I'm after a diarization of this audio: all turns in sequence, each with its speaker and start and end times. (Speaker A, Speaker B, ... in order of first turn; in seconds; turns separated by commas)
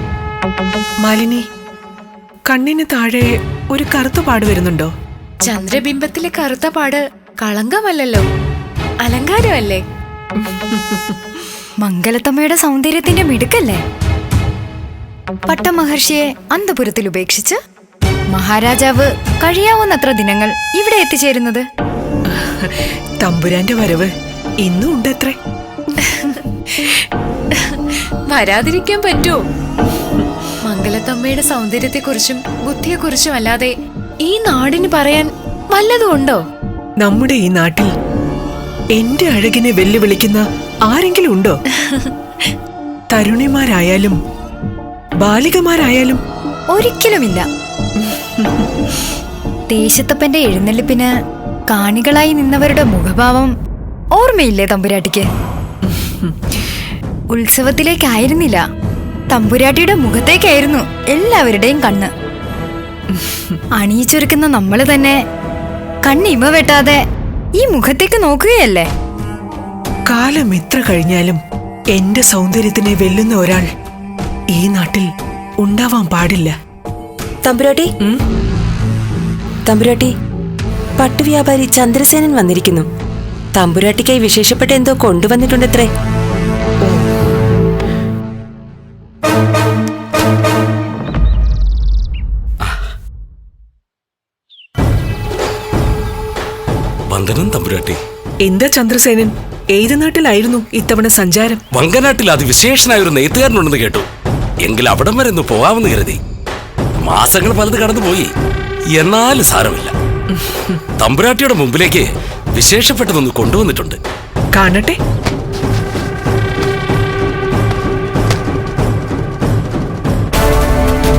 Speaker A: 1.0-1.4, Speaker A: 2.5-4.9, Speaker B: 5.4-8.3, Speaker B: 9.0-9.8, Speaker C: 11.8-13.8, Speaker C: 15.5-17.6, Speaker C: 18.3-21.6, Speaker A: 22.3-24.1, Speaker A: 24.6-25.4, Speaker B: 26.1-26.3, Speaker B: 27.6-29.4, Speaker B: 30.6-36.4, Speaker A: 37.0-37.9, Speaker A: 38.9-41.6, Speaker A: 43.1-44.2, Speaker A: 45.2-46.2, Speaker C: 46.7-47.5, Speaker C: 49.7-51.1, Speaker C: 51.7-53.5, Speaker C: 54.1-55.3, Speaker A: 55.9-56.3, Speaker C: 57.3-58.6, Speaker C: 59.3-62.1, Speaker A: 63.1-63.6, Speaker C: 63.8-65.2, Speaker C: 66.0-67.0, Speaker C: 67.6-68.9, Speaker A: 70.1-71.4, Speaker A: 71.9-73.7, Speaker A: 74.5-75.1, Speaker A: 75.6-76.5, Speaker D: 81.0-82.8, Speaker D: 83.6-85.9, Speaker E: 97.1-98.0, Speaker A: 98.4-101.6, Speaker E: 101.8-104.1, Speaker E: 104.6-106.2, Speaker E: 107.0-108.3, Speaker E: 109.0-109.9, Speaker E: 111.0-112.0, Speaker E: 112.6-114.0, Speaker A: 114.5-115.0